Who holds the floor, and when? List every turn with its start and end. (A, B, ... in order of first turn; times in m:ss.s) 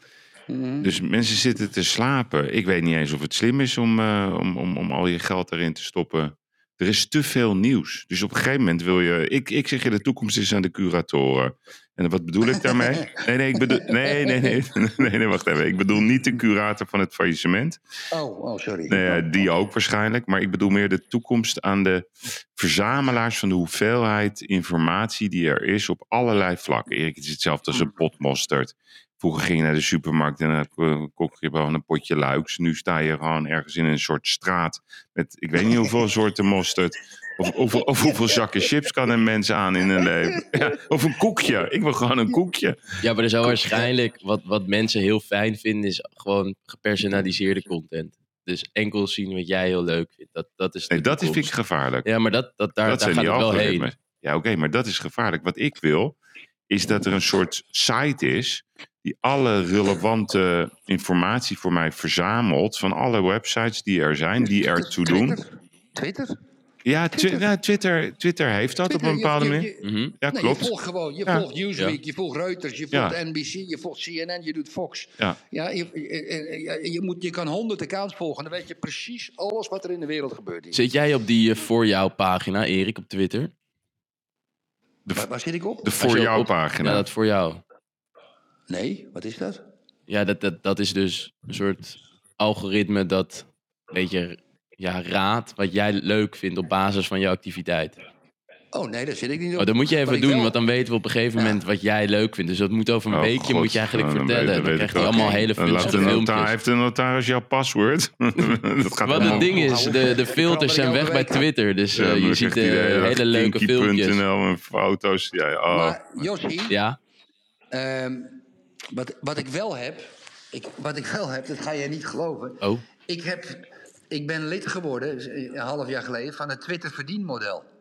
0:00.5-0:00.9 A
0:00.8-0:17.8 B
0:12.5-0:14.6 A
0:18.1-0:19.4 A
0:18.9-0:42.8 B
0:38.1-0:38.6 A
0:40.0-0:40.6 A
0:43.0-0:51.5 C
0:50.9-0:52.0 B
0:52.0-0:53.8 C
0:52.8-0:56.2 B
0:56.7-1:05.4 B
1:04.4-1:06.3 A
1:06.8-1:09.7 B
1:07.2-1:07.5 A
1:08.9-1:20.8 A
1:09.8-1:10.2 C
1:10.2-1:10.7 B
1:12.9-1:13.2 B
1:20.7-1:23.5 C
1:25.1-1:25.9 A
1:25.8-1:27.1 B
1:26.0-1:27.6 C
1:28.7-1:29.6 A
1:30.1-1:38.0 C
1:38.7-1:40.5 A
1:39.6-1:46.5 C
1:43.1-1:49.9 B
1:49.1-1:54.2 C
1:49.1-1:51.5 A
1:51.9-1:56.2 B
1:55.7-1:56.8 A
1:56.7-1:57.0 C
1:57.7-2:07.7 A